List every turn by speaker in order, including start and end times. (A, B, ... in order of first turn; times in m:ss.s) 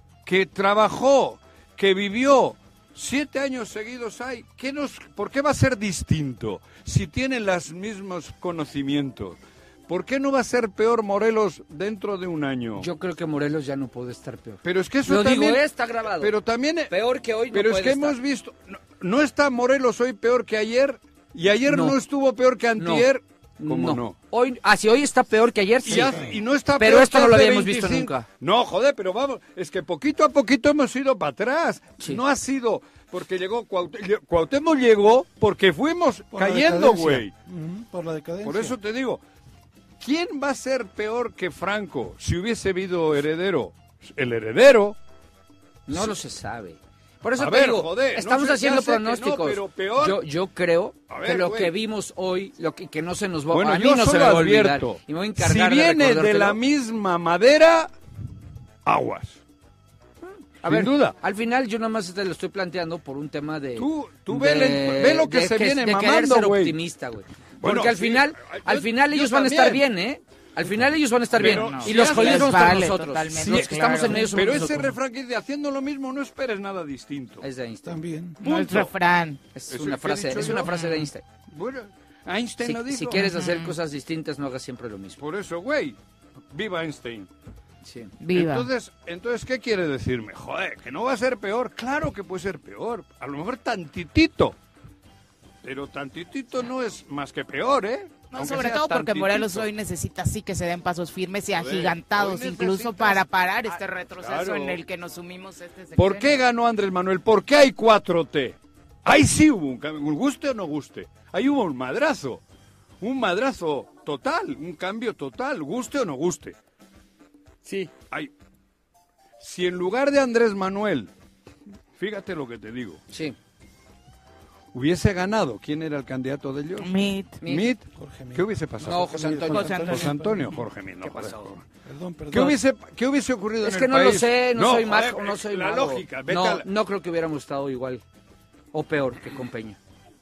0:00.2-0:12.9 A
0:12.8-0:16.4 B
0:14.6-0:16.9 A
0:16.9-0:18.2 B
0:17.5-0:24.2 A
0:21.7-0:22.0 B
0:22.8-0:23.1 B
0:23.6-0:26.2 B
0:25.8-0:37.3 A
0:25.9-0:26.4 C
0:26.8-0:28.3 B
0:36.3-0:38.8 C
0:38.4-0:39.2 A
0:40.0-0:45.0 A
0:45.9-0:56.6 B
0:47.4-0:50.2 A
0:51.1-0:51.7 A
0:53.5-0:57.9 A
0:58.8-0:59.4 A
1:00.6-1:14.9 B
1:00.6-1:01.2 A
1:03.8-1:06.8 A
1:07.6-1:09.8 A
1:11.3-1:12.8 A
1:11.4-1:14.6 D
1:13.3-1:17.4 A
1:17.4-1:18.0 B
1:17.8-1:18.4 C
1:18.4-1:19.4 D
1:18.4-1:18.9 A
1:19.5-1:21.2 B
1:19.7-1:20.8 A
1:20.4-1:21.1 D
1:21.5-1:23.2 A
1:22.6-1:25.2 B
1:23.1-1:23.7 D
1:25.2-1:26.0 A
1:26.5-1:27.3 A
1:27.8-1:28.1 B
1:28.2-1:28.7 D
1:28.3-1:34.6 A
1:35.6-1:39.7 A
1:38.3-1:46.4 D
1:41.5-1:43.2 A
1:44.2-1:44.8 A
1:46.0-1:52.4 A
1:53.0-1:56.6 A
1:57.6-1:57.9 B
1:59.4-2:01.1 A
2:02.0-2:03.0 A
2:03.1-2:03.4 B
2:04.7-2:06.9 A
2:06.8-2:07.4 D
2:07.4-2:07.7 B
2:07.4-2:11.6 A
2:08.0-2:10.5 C
2:08.8-2:09.9 B
2:09.5-2:10.1 D
2:11.0-2:11.5 B
2:11.8-2:12.6 C
2:12.3-2:16.7 A
2:13.6-2:18.0 B
2:18.7-2:19.8 B